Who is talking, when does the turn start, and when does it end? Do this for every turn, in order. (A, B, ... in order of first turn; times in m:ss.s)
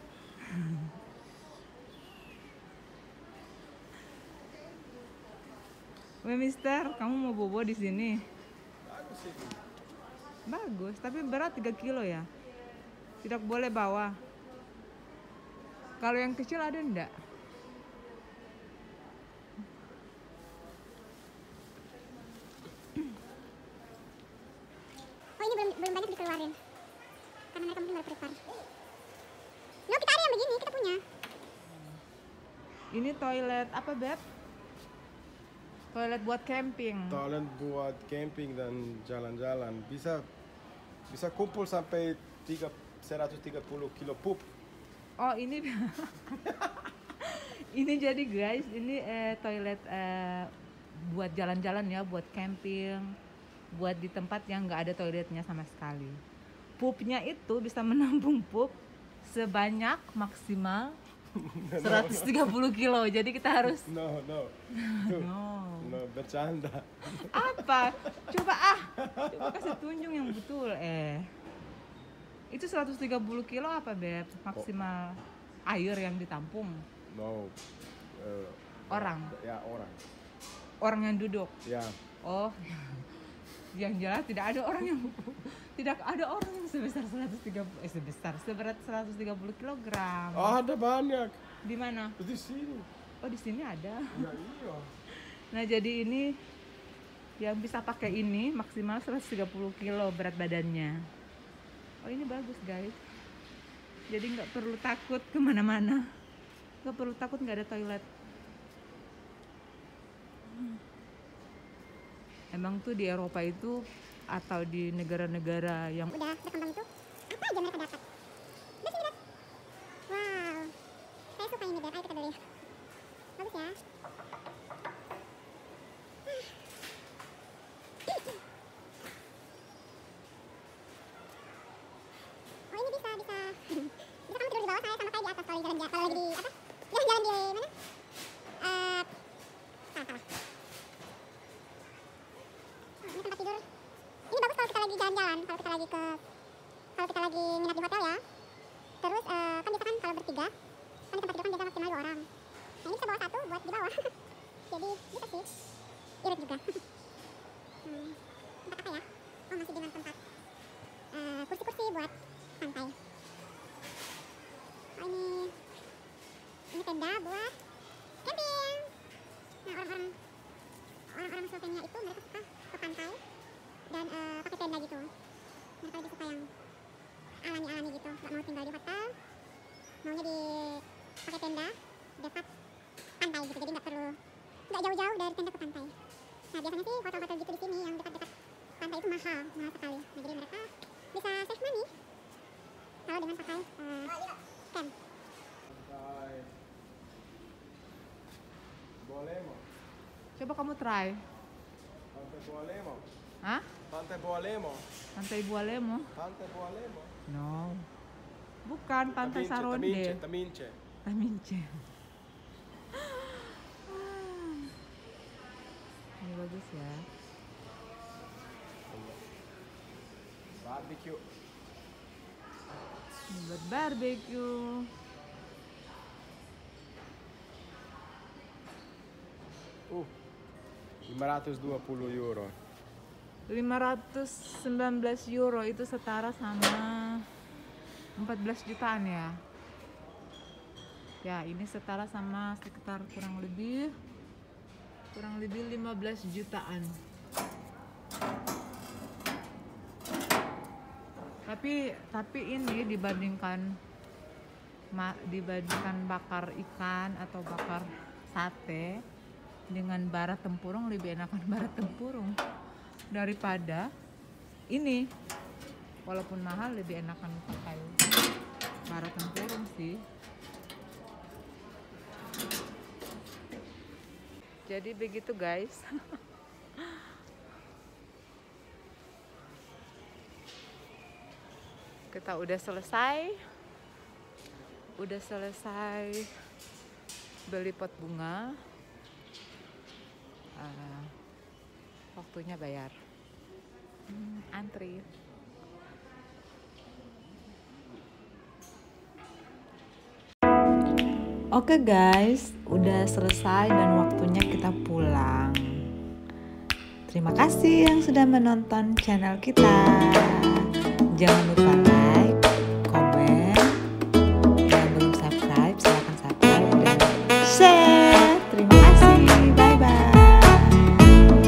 0:00.5-0:00.9 A
0:06.2-0:08.2 A
0:08.8-0:09.6 B
0:10.5-0:12.3 A
0:13.2-0:14.2 A
0:16.0-0:17.1 A
0:25.4-0:26.6 C
0:27.5-0:28.4 C
0:29.9-0:31.0 C
0:31.6-0:32.0 A
0:32.9-0:34.2 A
0:35.9-0:37.2 A
0:37.1-0:40.3 B
0:41.1-0:44.5 B
0:45.2-0:46.6 A
0:47.2-0:53.1 A
0:53.7-0:56.2 A
0:56.8-1:01.0 A
1:01.3-1:02.5 B
1:01.8-1:03.9 A
1:03.8-1:08.4 B
1:04.7-1:06.0 A
1:07.1-1:11.3 A
1:09.0-1:09.8 B
1:12.5-1:16.8 A
1:17.1-1:17.6 B
1:18.2-1:20.0 B
1:18.9-1:19.3 A
1:20.8-1:21.5 A
1:21.6-1:22.0 B
1:22.2-1:23.1 A
1:23.7-1:30.6 A
1:30.4-1:31.4 B
1:31.6-1:32.2 A
1:32.2-1:32.9 B
1:33.2-1:34.4 A
1:34.1-1:34.9 B
1:35.5-1:36.3 A
1:37.4-1:41.0 A
1:42.0-1:43.0 A
1:44.1-1:46.0 A
1:46.8-1:48.1 A
1:50.5-1:50.8 A
1:52.5-1:53.8 A
1:54.3-1:56.1 A
1:56.1-1:58.0 C
1:58.8-1:59.2 C
2:00.1-2:00.7 C
2:01.4-2:02.4 C
2:03.4-2:03.8 C
2:12.7-2:17.7 C
2:18.6-2:19.1 C
2:19.9-2:20.2 C
2:23.0-2:23.6 C
2:24.3-2:26.2 C
2:27.0-2:28.2 C
2:29.0-2:30.5 C
2:31.1-2:32.3 C
2:32.8-2:34.1 C
2:34.7-2:35.5 C
2:36.2-2:36.8 C
2:37.8-2:40.2 C
2:41.1-2:43.0 C
2:45.0-2:45.5 C
2:46.7-2:47.6 C
2:48.2-2:48.9 C
2:49.6-2:50.2 C
2:51.1-2:53.2 C
2:53.9-2:55.1 C
2:55.8-2:56.5 C
2:57.4-2:59.2 C
3:00.0-3:02.5 C
3:03.2-3:04.2 C
3:04.7-3:05.9 C
3:06.5-3:11.9 C
3:13.1-3:14.9 C
3:15.7-3:16.5 B
3:19.0-3:19.6 B
3:20.4-3:21.2 A
3:22.1-3:23.1 B
3:23.4-3:23.7 A
3:23.9-3:24.9 B
3:25.2-3:26.1 A
3:26.2-3:27.1 B
3:27.3-3:27.9 A
3:28.7-3:30.2 A
3:29.1-3:30.8 B
3:31.0-3:31.8 A
3:32.9-3:34.7 A
3:36.2-3:37.1 A
3:38.9-3:39.2 B
3:40.6-3:41.2 B
3:43.3-3:44.9 A
3:51.1-3:52.6 B
3:53.5-3:57.3 A
3:58.2-3:59.4 A
4:01.2-4:03.9 A
4:05.1-4:07.0 A
4:11.5-4:13.7 A
4:15.0-4:19.0 A
4:19.7-4:22.4 A
4:23.1-4:23.9 A
4:24.7-4:25.0 A
4:26.1-4:28.0 A
4:28.9-4:30.0 A
4:34.7-4:36.2 A
4:36.8-4:37.2 A
4:42.1-4:43.4 A
4:45.0-4:46.3 A
4:47.5-4:48.6 A
4:50.6-4:51.1 A
4:52.2-4:53.0 A
4:54.1-4:55.1 A
5:01.5-5:05.8 D
5:07.1-5:13.8 D
5:14.7-5:21.0 D